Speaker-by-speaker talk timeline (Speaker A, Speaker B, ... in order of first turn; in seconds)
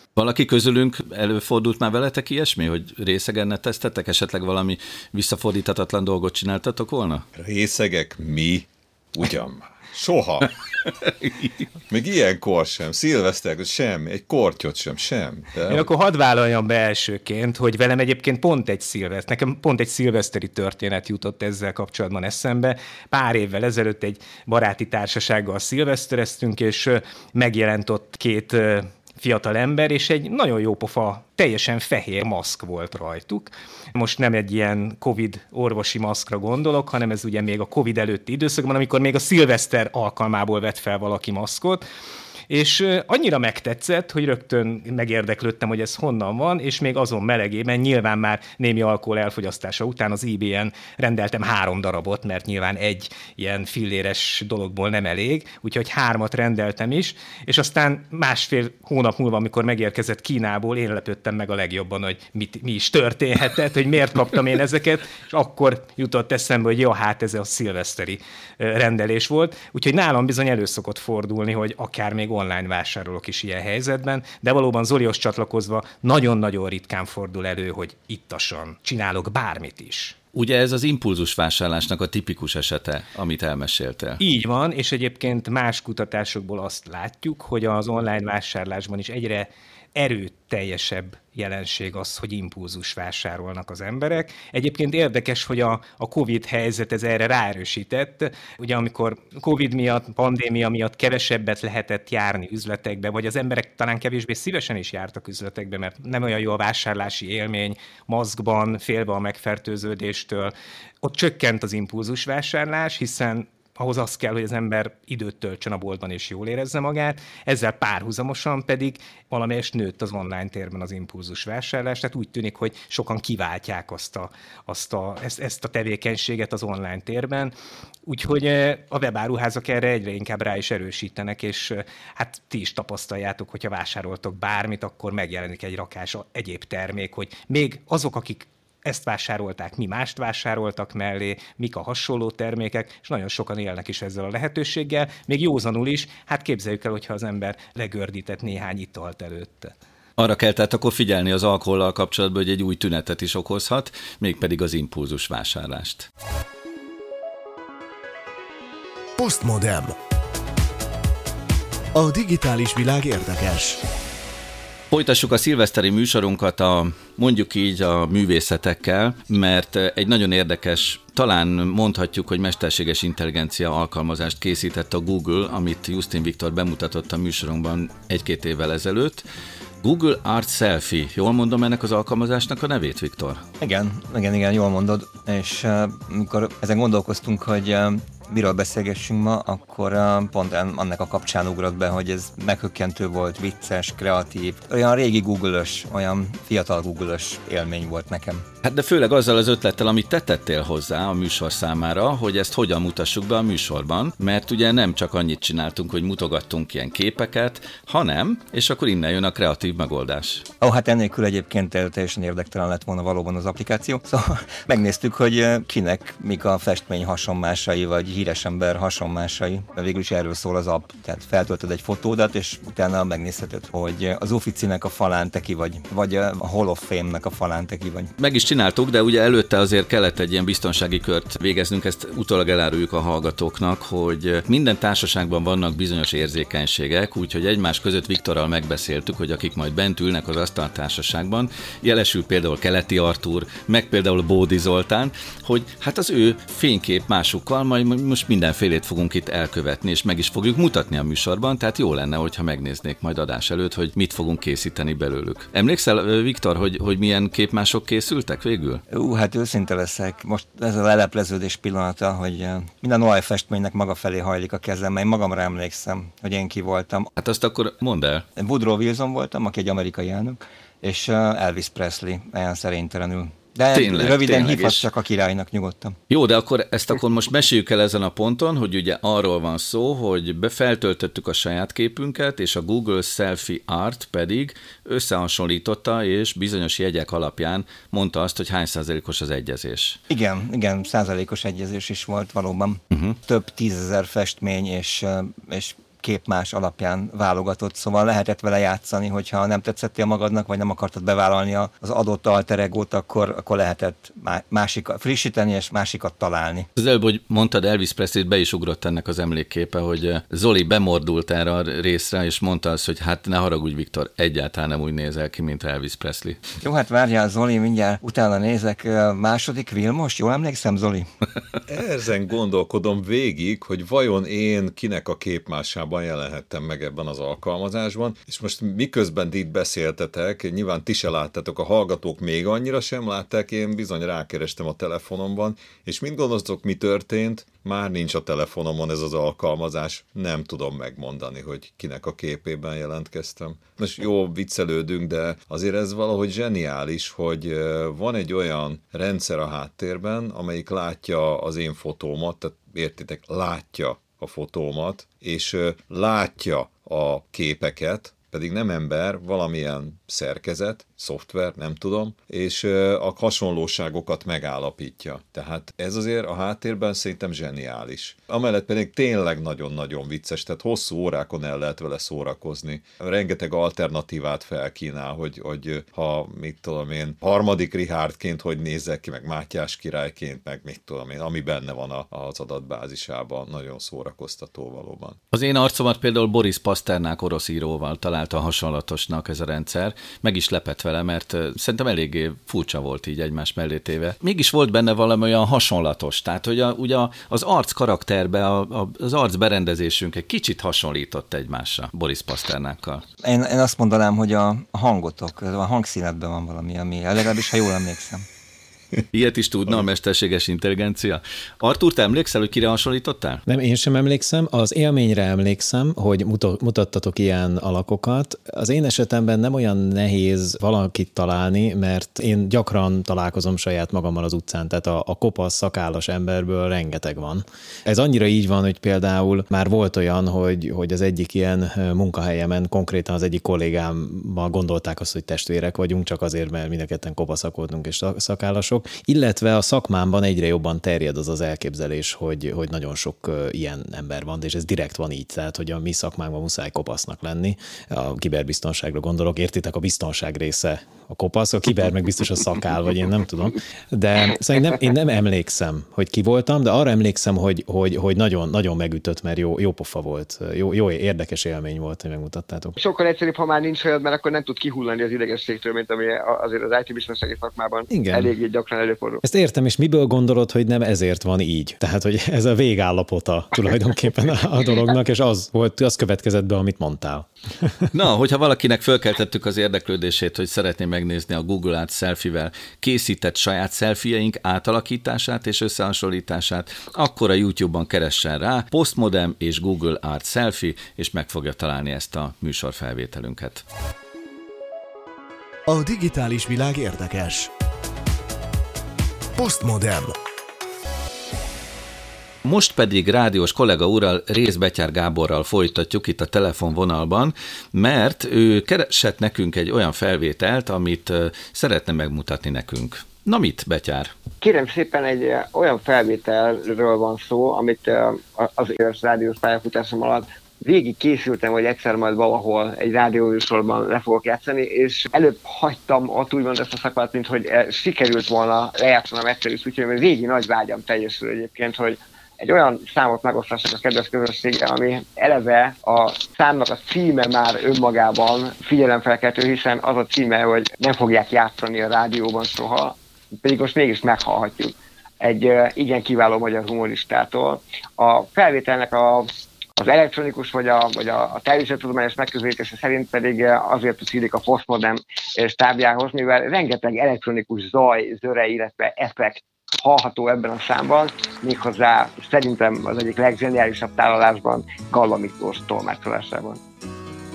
Speaker A: 0.2-7.2, 11.2-11.5, 80.3-84.2, 150.2-156.1, 164.9-179.2, 179.8-183.4, 198.6-210.5, 228.2-258.8, 267.2-268.2, 273.7-274.9, 276.1-290.0, 306.8-316.4, 385.3-403.0, 409.1-413.4, 477.9-493.6, 502.4-514.1
Speaker B: 7.4-10.5, 11.9-15.9, 321.7-385.2
Speaker C: 15.7-41.8, 42.5-80.2, 84.2-127.5, 128.1-149.7
Speaker D: 159.2-159.9, 162.0-163.8, 495.7-497.5, 499.4-500.1
Speaker E: 183.6-198.4, 210.6-228.1, 258.9-267.1, 268.4-276.0, 290.1-306.7, 316.6-321.1, 403.2-408.3
Speaker F: 413.5-462.8, 467.9-468.3, 469.2-477.9
Speaker G: 462.8-469.2, 514.4-566.6